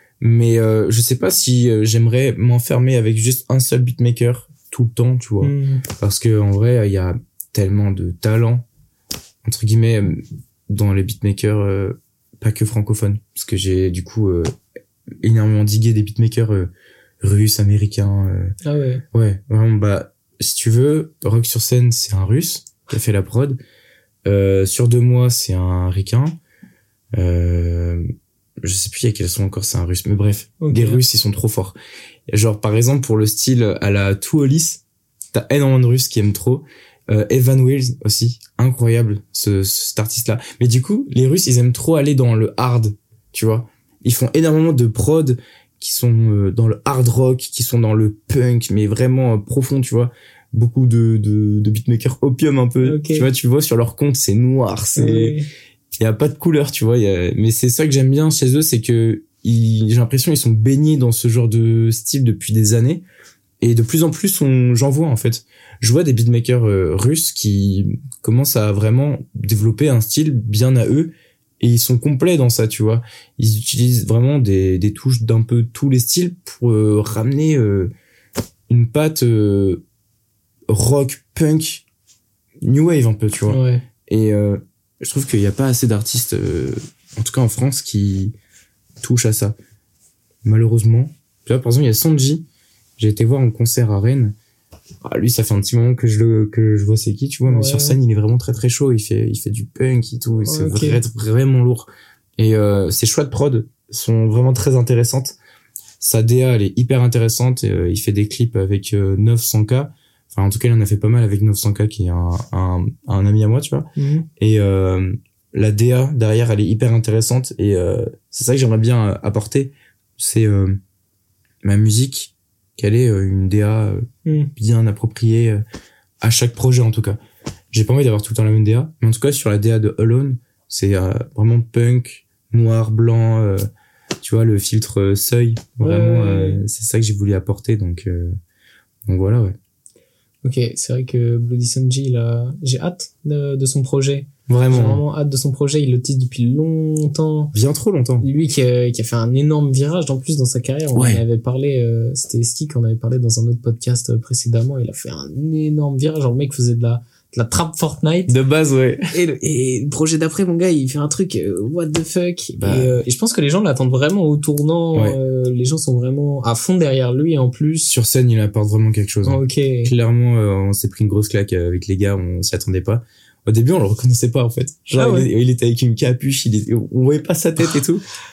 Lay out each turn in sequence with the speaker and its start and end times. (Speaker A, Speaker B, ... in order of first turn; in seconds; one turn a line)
Speaker A: 0.2-8.7
Speaker B: 5.4-5.8
Speaker A: 9.4-14.5
Speaker A: 15.2-16.7
Speaker A: 17.2-18.5
Speaker B: 18.6-19.0
Speaker A: 19.1-23.6
Speaker A: 24.3-26.4
Speaker A: 27.1-28.1
Speaker A: 28.6-31.8
Speaker B: 30.6-31.0
Speaker A: 32.3-34.8
Speaker A: 35.3-55.4
Speaker B: 52.8-53.3
Speaker B: 55.0-55.5
Speaker A: 56.0-63.0
Speaker A: 63.6-77.9
Speaker A: 78.7-79.8
Speaker A: 80.7-81.8
Speaker A: 82.6-88.3
Speaker B: 83.5-83.8
Speaker A: 89.0-89.5
Speaker A: 90.4-92.5
Speaker A: 93.0-94.3
Speaker A: 95.0-105.4
Speaker B: 97.5-98.0
Speaker B: 100.4-101.0
Speaker A: 106.0-120.8
Speaker B: 114.0-114.3
Speaker A: 121.6-125.6
Speaker B: 124.2-124.5
Speaker A: 126.2-127.2
Speaker A: 127.7-133.7
Speaker A: 134.2-138.4
Speaker B: 135.8-136.6
Speaker A: 139.1-139.6
Speaker B: 140.4-147.5
Speaker A: 144.5-145.0
Speaker A: 147.5-148.3
Speaker B: 148.2-158.4
Speaker A: 150.9-151.2
Speaker A: 158.3-159.1
Speaker B: 159.1-167.9
Speaker A: 162.6-162.9
Speaker A: 167.9-178.0
Speaker B: 169.2-169.9
Speaker B: 175.0-175.3